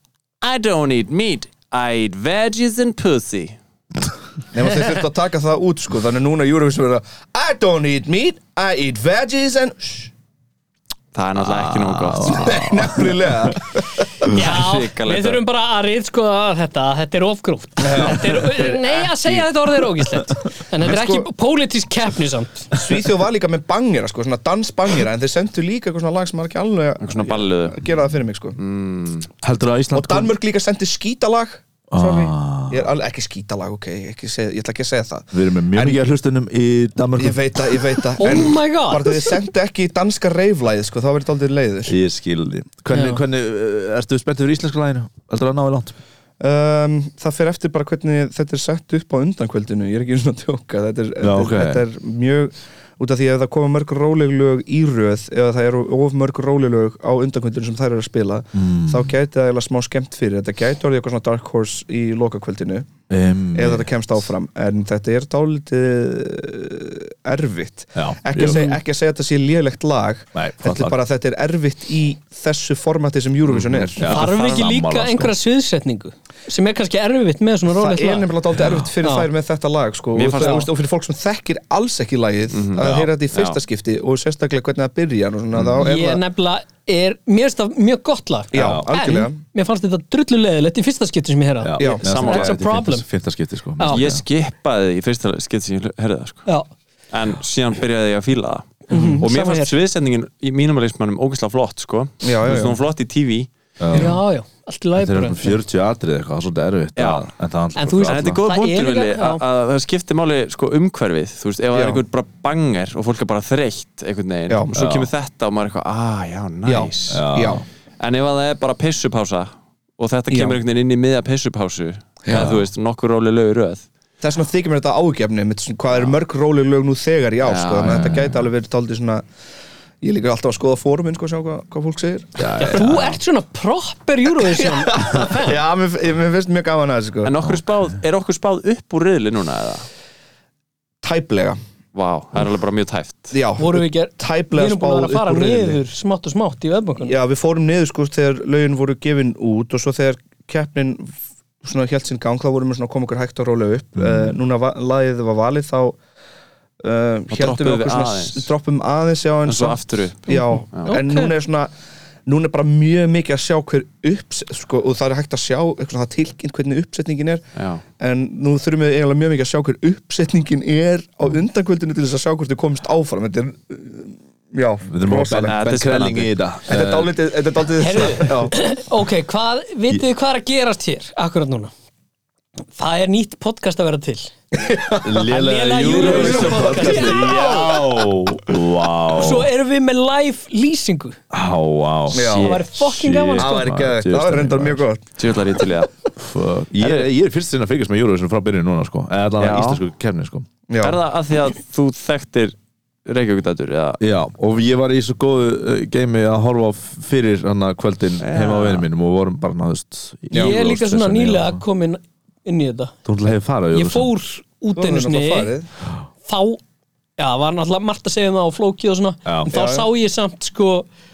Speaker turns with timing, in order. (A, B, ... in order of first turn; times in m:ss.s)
0:00.4-0:03.6 A
0:04.5-0:10.1 B
0:11.1-0:12.7 A
0:11.4-0:13.6 C
0:12.2-0:14.3 B
0:14.2-0:15.4 A
0:14.2-0:22.7 D
0:17.8-0:19.4 B
0:20.7-0:21.3 B
0:22.7-0:28.6 B
0:27.0-0:27.8 A
0:28.6-0:29.3 A
0:29.4-0:30.3 C
0:29.9-0:36.1 B
0:31.9-0:32.9 C
0:35.3-0:38.4 C
0:37.2-0:41.9 B
0:38.2-0:39.3 D
0:41.9-0:46.0 C
0:42.9-0:43.2 D
0:46.4-1:02.9 B
0:51.2-0:51.8 C
0:58.5-0:59.1 C
1:03.1-1:04.2 C
1:03.5-1:14.1 B
1:07.9-1:08.8 C
1:10.3-1:11.0 C
1:13.4-1:14.6 A
1:14.0-1:15.4 C
1:14.0-1:18.3 D
1:17.6-1:26.2 B
1:18.6-1:18.9 C
1:19.0-1:19.3 D
1:20.1-1:20.7 A
1:22.5-1:23.6 A
1:25.5-1:25.8 C
1:25.8-1:33.0 D
1:28.5-1:29.4 B
1:28.5-1:28.9 C
1:31.6-1:34.2 C
1:31.8-1:32.0 B
1:32.0-1:32.5 A
1:33.8-1:34.0 D
1:33.9-1:36.4 A
1:37.1-1:43.5 A
1:38.9-1:39.7 D
1:38.9-1:39.2 B
1:42.2-1:42.8 B
1:43.8-1:44.2 C
1:43.9-1:45.6 D
1:44.9-1:48.4 C
1:47.0-1:47.3 A
1:47.8-1:49.4 D
1:48.1-1:57.3 A
1:51.7-1:52.0 B
1:54.5-1:55.1 B
1:56.6-1:57.6 B
1:57.1-1:57.6 C
1:58.0-2:03.8 A
2:00.3-2:00.6 B
2:02.3-2:02.6 C
2:04.2-2:09.2 B
2:05.9-2:06.2 A
2:07.4-2:08.1 A
2:07.8-2:08.5 C
2:10.0-2:12.5 B
2:12.4-2:13.1 C
2:12.6-2:15.6 D
2:12.7-2:13.2 A
2:14.5-2:17.3 B
2:17.2-2:19.8 A
2:21.0-2:21.6 B
2:21.9-2:23.3 A
2:23.3-2:25.8 B
2:23.6-2:27.2 D
2:27.0-2:36.0 B
2:34.0-2:34.3 C
2:36.8-2:41.7 B
2:37.3-2:38.5 A
2:39.4-2:41.0 A
2:40.3-2:41.3 D
2:42.2-2:47.4 B
2:47.5-2:47.8 A
2:48.0-2:55.5 B
2:54.8-2:57.2 C
2:55.4-2:56.3 A
2:56.7-2:58.5 B
2:57.8-3:01.7 D
3:02.7-3:04.3 D
3:04.5-3:05.3 B
3:05.0-3:09.5 C
3:05.2-3:07.8 D
3:05.8-3:07.4 A
3:06.1-3:06.6 B
3:09.1-3:11.2 D
3:11.3-3:14.8 C
3:12.1-3:12.5 B
3:12.1-3:12.6 A
3:12.4-3:13.7 D
3:13.4-3:15.0 B
3:15.2-3:15.9 A
3:16.2-3:20.5 C
3:19.4-3:19.8 A
3:20.7-3:21.0 B
3:20.8-3:22.5 A
3:23.0-3:24.0 A
3:24.0-3:31.6 C
3:28.2-3:28.9 A
3:30.3-3:32.9 D
3:33.0-3:34.1 C
3:33.7-3:35.5 D
3:34.7-3:35.7 B
3:36.2-3:36.6 D
3:37.2-3:40.9 D
3:39.2-3:39.5 C
3:39.5-3:39.9 B